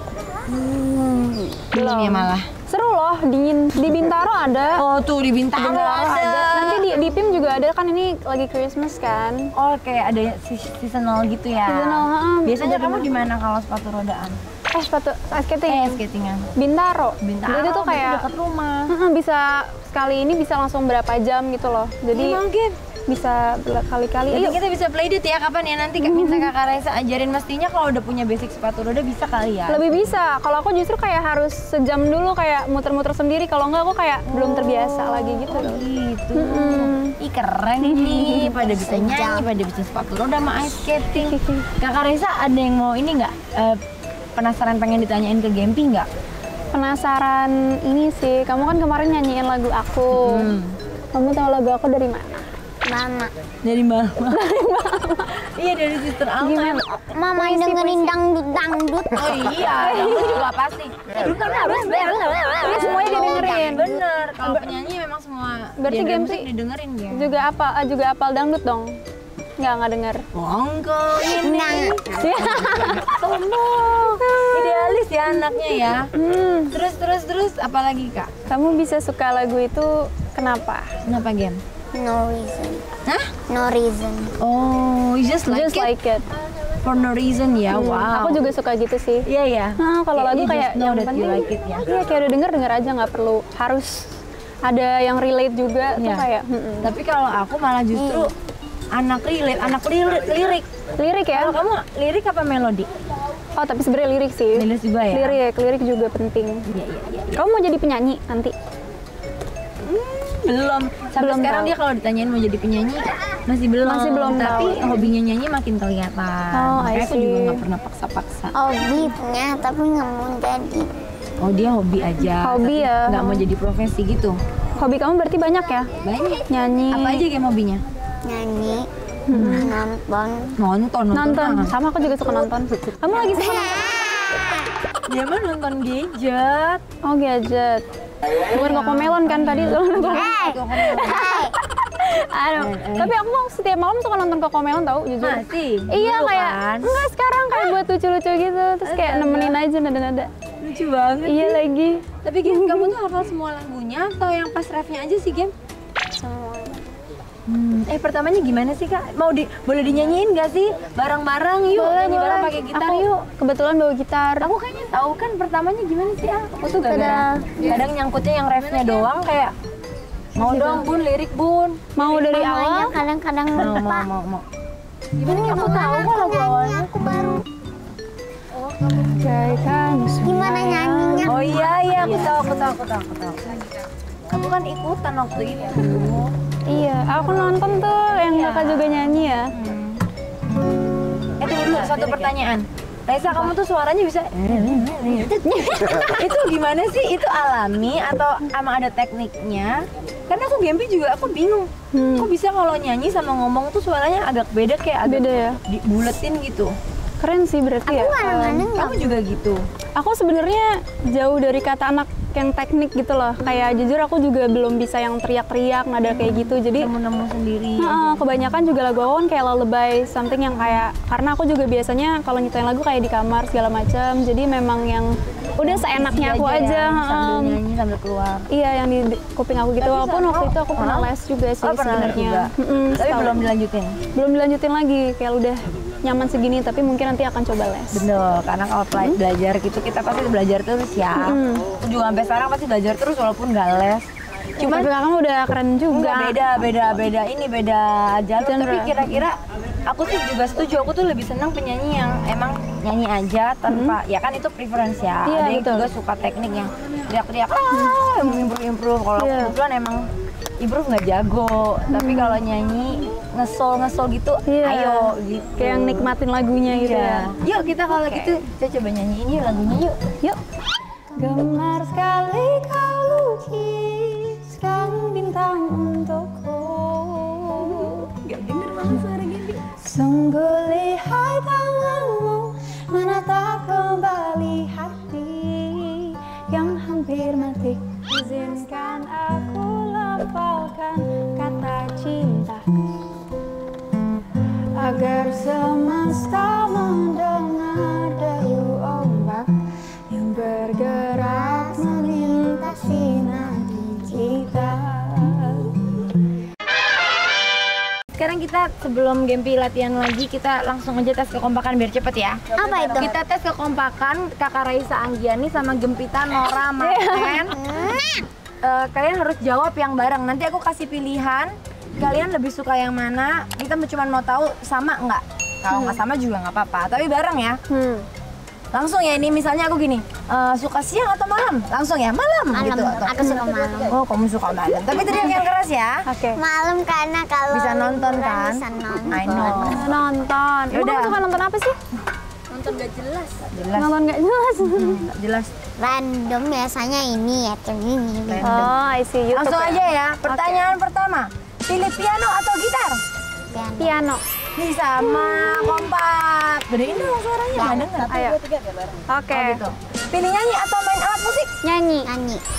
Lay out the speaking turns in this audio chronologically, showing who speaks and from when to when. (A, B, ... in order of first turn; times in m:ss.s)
0:00.5-0:02.5 A
0:01.7-0:04.8 B
0:04.8-0:07.1 A
0:05.5-0:09.5 B
0:09.6-0:14.4 A
0:11.7-0:13.1 B
0:14.7-0:16.0 B
0:15.7-0:16.5 A
0:16.6-0:18.2 B
0:17.2-0:18.9 A
0:18.9-0:22.4 B
0:22.1-0:22.8 A
0:23.1-0:24.6 B
0:24.3-0:29.9 A
0:26.0-0:26.5 B
0:29.7-0:37.2 B
0:34.3-0:43.8 A
0:37.8-0:38.6 B
0:38.7-0:39.5 C
0:41.1-0:41.7 B
0:44.4-0:46.1 A
0:46.7-0:50.6 B
0:50.1-0:50.8 A
0:51.1-0:52.5 B
0:52.8-0:53.3 C
0:53.6-0:54.4 A
0:54.3-0:55.4 B
0:55.3-0:56.8 A
0:56.4-0:58.2 B
0:57.0-0:59.3 C
0:59.1-1:07.3 A
0:59.7-1:00.4 B
1:02.6-1:03.9 B
1:03.0-1:04.0 C
1:05.8-1:06.5 B
1:07.1-1:09.0 B
1:09.6-1:10.2 B
1:10.3-1:16.1 A
1:11.2-1:12.9 C
1:12.2-1:13.2 B
1:14.2-1:15.0 B
1:16.2-1:16.8 B
1:16.7-1:18.3 A
1:18.5-1:20.9 B
1:21.0-1:21.6 A
1:21.9-1:22.9 C
1:23.1-1:23.3 A
1:23.5-1:24.4 C
1:24.4-1:25.9 A
1:25.5-1:26.3 B
1:26.8-1:28.5 A
1:27.7-1:29.3 B
1:29.3-1:31.9 A
1:29.8-1:34.1 B
1:34.6-1:37.0 B
1:36.0-1:36.3 A
1:36.8-1:38.3 A
1:38.0-1:38.3 B
1:38.9-1:40.7 A
1:41.0-1:41.6 B
1:41.3-1:42.9 A
1:43.6-1:46.7 B
1:44.6-1:45.4 A
1:46.7-1:47.4 A
1:47.3-1:48.6 B
1:49.9-1:58.6 A
1:51.2-1:51.7 B
1:53.8-1:55.1 B
1:56.5-1:57.6 B
1:58.5-2:00.9 C
2:01.4-2:04.4 A
2:02.4-2:03.4 B
2:04.8-2:05.9 B
2:06.0-2:07.8 A
2:06.4-2:07.3 B
2:08.2-2:08.9 C
2:09.3-2:09.8 B
2:09.3-2:09.7 A
2:09.5-2:10.6 C
2:10.6-2:11.7 A
2:11.1-2:13.9 B
2:13.2-2:14.5 C
2:15.1-2:16.8 A
2:17.0-2:17.8 B
2:18.5-2:21.4 A
2:18.5-2:30.3 B
2:20.1-2:21.5 C
2:22.6-2:23.1 A
2:25.2-2:27.0 A
2:28.8-2:29.6 A
2:30.6-2:31.6 A
2:31.2-2:33.0 B
2:32.2-2:35.5 A
2:36.2-2:36.7 B
2:37.5-2:43.2 A
2:41.7-2:44.5 B
2:44.4-2:49.5 A
2:46.9-2:47.6 C
2:50.4-2:52.3 A
2:50.4-2:50.9 B
2:52.0-2:53.0 B
2:52.0-2:54.1 C
2:53.6-2:54.4 A
2:55.2-2:56.9 A
2:55.2-2:57.4 C
2:58.8-3:02.3 B
3:00.2-3:01.7 C
3:01.2-3:03.4 A
3:04.3-3:06.3 A
3:06.7-3:09.5 B
3:08.1-3:10.0 A
3:11.4-3:26.8 A
3:21.9-3:22.3 B
3:25.0-3:25.6 B
3:27.2-3:28.7 B
3:27.9-3:29.2 C
3:28.3-3:29.6 A
3:30.0-3:36.9 B
3:36.0-3:38.3 A
3:37.8-3:47.6 B
3:45.6-3:48.4 A
3:48.5-3:53.4 B
3:49.8-3:51.1 A
3:51.6-3:54.0 A
3:54.1-3:58.1 B
3:57.9-4:04.9 A
4:01.2-4:01.6 B
4:04.6-4:06.7 B
4:05.9-4:09.4 A
4:08.4-4:09.2 B
4:09.9-4:20.1 A
4:13.7-4:14.0 B
4:15.2-4:15.9 B
4:17.7-4:18.4 B
4:19.2-4:19.6 B
4:20.6-4:26.1 A
4:21.9-4:22.4 B
4:24.5-4:27.4 B
4:26.6-4:30.0 A
4:27.9-4:28.4 B
4:31.2-4:38.1 B
4:34.0-4:34.4 A
4:37.5-4:39.7 A
4:39.6-4:52.7 B
4:54.8-4:59.5 B
5:00.1-5:06.0 B
5:01.4-5:02.9 C
5:08.2-5:17.6 A
5:12.5-5:13.2 C
5:16.8-5:17.6 B
5:17.5-5:18.3 C
5:18.6-5:27.6 A
5:25.7-5:26.0 B
5:27.7-5:28.1 B
5:28.7-5:36.0 A
5:32.5-5:34.0 C
5:36.1-5:36.4 B
5:36.4-5:39.9 C
5:37.5-5:39.9 A
5:39.6-5:41.8 B
5:40.7-5:41.2 A
5:42.5-5:43.9 A
5:43.7-5:45.0 B
5:44.6-5:45.5 A
5:45.8-5:48.7 C
5:48.3-5:48.7 A
5:48.4-5:50.7 B
5:49.3-5:53.0 A
5:53.5-5:54.0 C
5:53.8-5:54.2 B
5:54.6-5:58.5 A
5:57.5-5:57.9 C
5:58.1-5:58.4 B
5:59.1-5:59.6 B
5:59.3-6:01.5 A
6:01.6-6:02.1 B
6:02.0-6:02.4 C